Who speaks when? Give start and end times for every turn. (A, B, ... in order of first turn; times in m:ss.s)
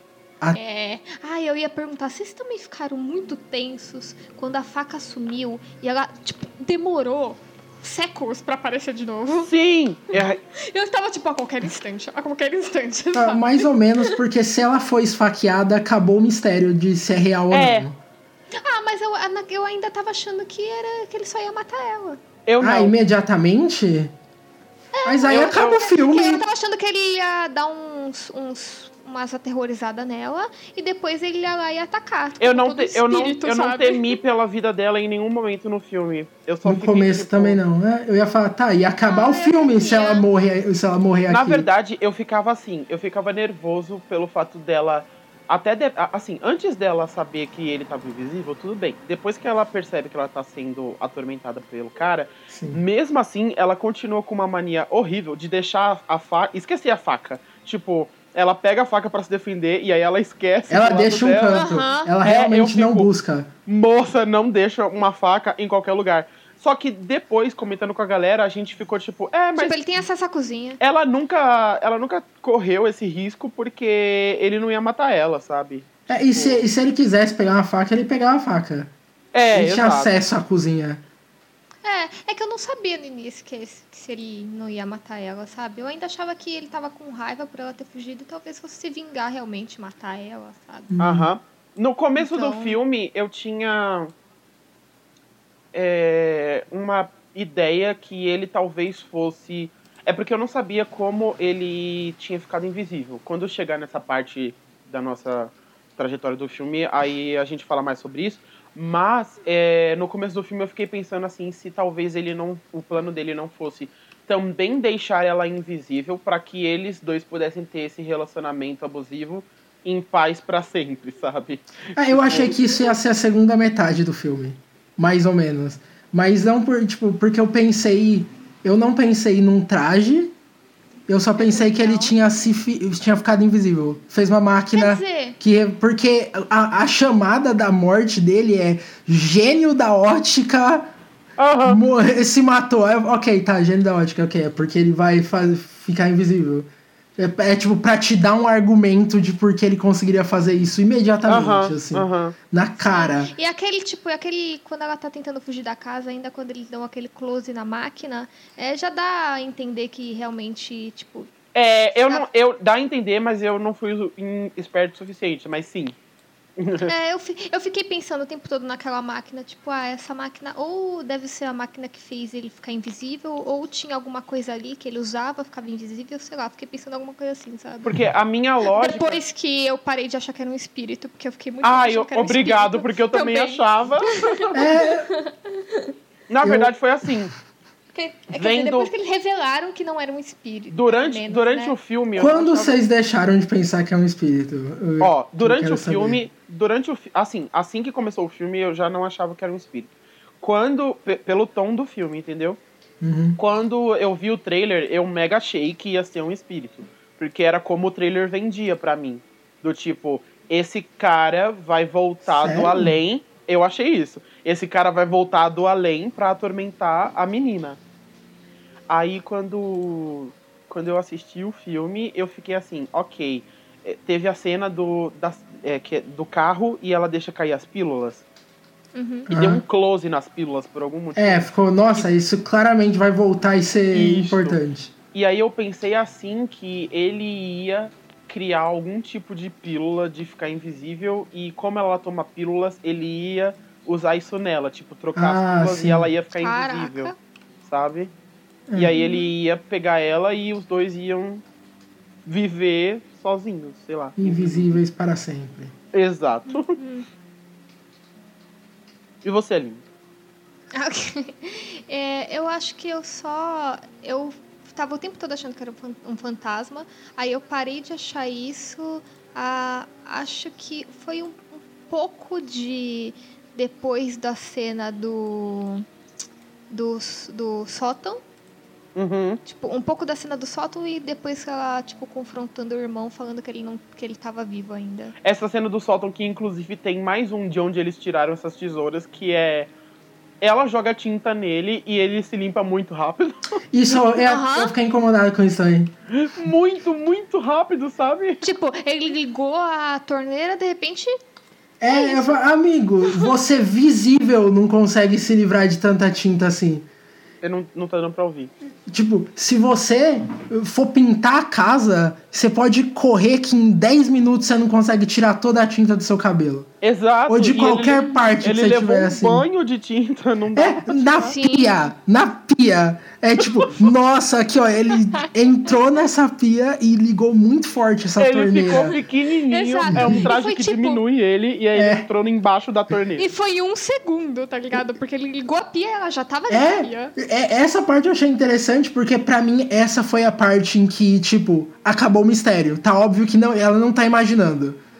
0:00.5-0:09.5 A
0:09.4-0:10.4 B
0:10.1-0:14.2 A
0:13.1-0:18.0 C
0:17.5-0:17.9 B
0:18.5-0:22.2 A
0:22.4-0:22.9 B
0:22.6-0:24.1 C
0:24.9-0:34.2 A
0:25.0-0:26.4 C
0:25.3-0:25.8 B
0:32.4-0:37.6 B
0:36.6-0:41.7 C
0:39.1-0:40.2 A
0:41.3-1:01.7 B
0:52.5-0:52.8 C
1:00.7-1:03.5 C
1:01.5-1:02.1 A
1:02.2-1:03.1 B
1:03.7-1:09.9 B
1:09.6-1:10.8 A
1:10.8-1:16.6 B
1:16.1-1:18.9 C
1:19.3-1:20.1 B
1:19.5-1:21.0 C
1:21.8-1:30.9 A
1:30.9-1:31.3 C
1:31.0-1:34.1 B
1:32.2-1:32.8 A
1:35.7-2:02.6 B
2:02.0-2:10.3 C
2:11.1-2:20.9 C
2:11.4-2:12.1 A
2:14.7-2:15.4 A
2:21.4-2:21.8 B
2:21.6-2:33.3 C
2:31.2-2:32.4 B
2:32.8-2:41.3 A
2:41.5-2:46.0 B
2:46.6-2:46.9 B
2:46.8-2:57.9 A
2:57.8-2:59.2 B
2:58.7-3:03.6 A
3:01.6-3:04.5 B
3:04.2-3:05.9 A
3:04.5-3:05.1 C
3:06.3-3:07.3 B
3:06.4-3:06.7 C
3:07.9-3:11.8 A
3:08.3-3:08.9 B
3:10.7-3:12.8 B
3:12.2-3:16.2 C
3:15.0-3:22.6 B
3:23.0-3:23.4 C
3:23.4-3:37.8 B
3:32.3-3:33.0 C
3:38.9-3:48.2 B
3:48.9-3:49.3 A
3:49.3-3:49.6 C
3:49.3-3:52.1 B
3:51.2-3:54.9 C
3:53.9-3:54.6 B
3:55.1-4:07.1 B
4:05.1-4:06.1 C
4:06.4-4:07.2 A
4:07.6-4:08.1 B
4:08.7-4:08.9 C
4:08.8-4:11.4 B
4:08.9-4:09.3 A
4:12.2-4:14.8 B
4:14.2-4:15.7 C
4:15.9-4:16.8 B
4:16.5-4:17.1 A
4:19.2-4:19.8 B
4:20.7-4:35.8 A
4:36.7-4:38.2 A
4:39.0-4:39.4 B
4:39.4-4:45.1 A
4:45.2-4:49.7 B
4:50.4-4:53.6 B
4:53.7-4:55.9 C
4:54.2-4:54.7 A
4:56.1-4:58.4 B
4:58.4-5:01.2 A
5:01.8-5:06.9 C
5:01.8-5:02.4 A
5:03.1-5:03.3 A
5:07.4-5:08.5 B
5:08.9-5:16.7 C
5:16.8-5:21.3 B
5:17.3-5:19.4 C
5:20.5-5:29.0 C
5:21.2-5:21.9 A
5:28.2-5:33.3 B
5:29.5-5:31.0 A
5:29.9-5:30.2 C
5:31.7-5:32.0 C
5:33.2-5:37.1 A
5:36.5-5:44.8 C